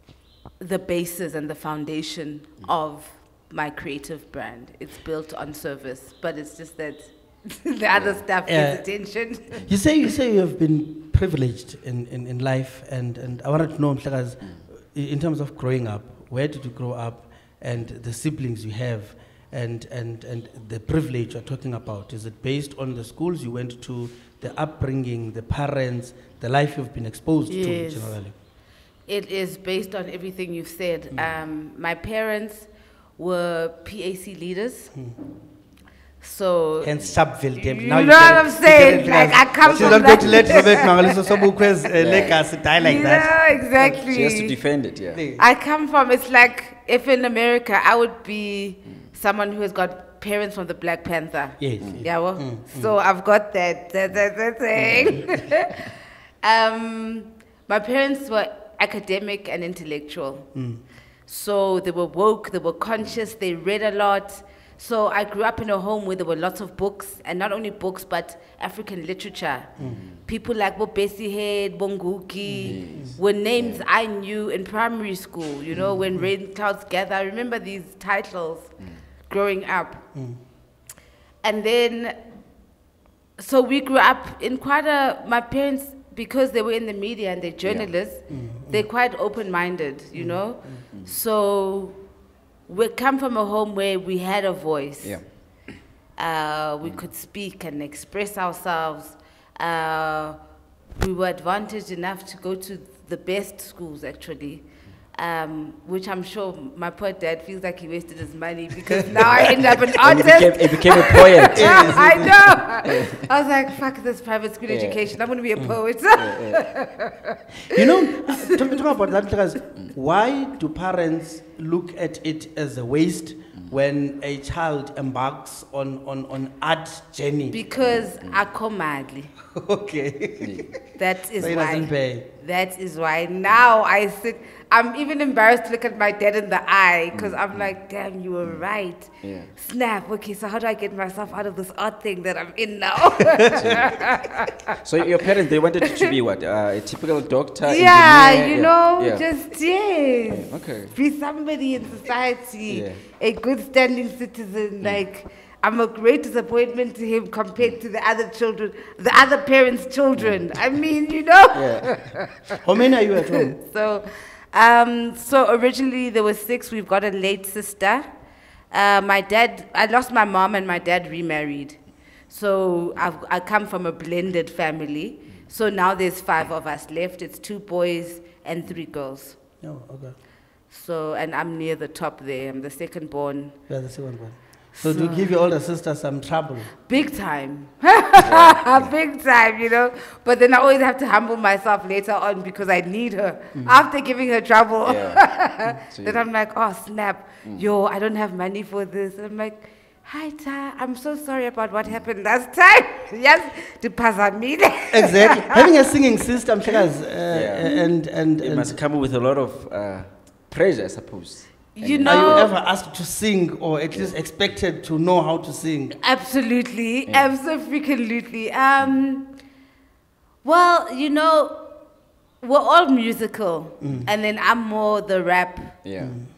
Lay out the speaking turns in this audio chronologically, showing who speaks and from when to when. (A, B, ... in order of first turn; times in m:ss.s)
0:00.6-0:09.6 A
0:07.9-0:08.2 B
0:08.5-0:08.8 C
0:09.6-0:28.3 C
0:27.5-0:28.2 A
0:29.1-0:34.9 A
0:36.2-0:37.0 A
0:36.8-0:43.3 C
0:37.5-0:41.4 A
0:39.6-0:40.8 B
0:42.0-0:42.4 B
0:42.8-0:44.6 A
0:43.8-0:45.2 B
0:45.1-0:45.4 C
0:45.4-1:00.5 A
0:51.6-0:52.9 C
0:54.8-0:55.2 B
1:00.5-1:00.8 C
1:01.3-1:18.7 A
1:09.8-1:10.0 C
1:09.8-1:10.1 B
1:12.4-1:13.2 C
1:12.6-1:13.8 B
1:15.8-1:16.2 C
1:19.3-1:20.0 A
1:20.1-1:20.4 C
1:21.4-1:22.2 A
1:23.4-1:32.0 A
1:27.6-1:27.9 B
1:28.3-1:28.8 C
1:30.2-1:30.8 C
1:32.7-1:35.2 A
1:36.2-1:40.4 A
1:40.9-1:58.8 A
1:49.2-1:52.2 B
1:51.5-1:52.6 C
1:52.8-1:53.2 B
1:54.7-1:55.1 B
1:56.1-1:56.6 B
1:57.7-2:07.6 C
2:07.5-2:09.3 A
2:07.8-2:08.4 B
2:09.5-2:10.7 C
2:10.4-2:10.7 B
2:11.0-2:24.8 A
2:11.4-2:12.3 C
2:17.1-2:17.7 B
2:19.2-2:19.5 B
2:23.6-2:23.9 B
2:24.8-2:29.2 B
2:25.8-2:26.1 A
2:27.6-2:42.6 A
2:30.3-2:30.9 B
2:32.7-2:33.0 B
2:40.2-2:40.4 B
2:41.5-2:42.0 B
2:42.6-2:43.6 C
2:43.3-2:48.1 A
2:48.7-2:51.8 A
2:52.3-2:59.4 A
2:59.6-3:00.2 C
3:00.7-3:03.6 A
3:03.7-3:06.7 C
3:04.7-3:05.3 A
3:06.9-3:25.8 A
3:08.2-3:08.9 B
3:13.6-3:13.8 C
3:14.8-3:16.3 B
3:24.9-3:28.8 C
3:27.3-3:27.7 B
3:28.4-3:32.5 B
3:31.7-3:32.5 A
3:32.0-3:36.0 C
3:36.0-3:39.3 A
3:37.1-3:37.3 B
3:40.4-3:41.7 A
3:42.4-3:45.8 A
3:43.8-3:44.1 C
3:45.8-3:46.2 B
3:46.0-3:46.3 C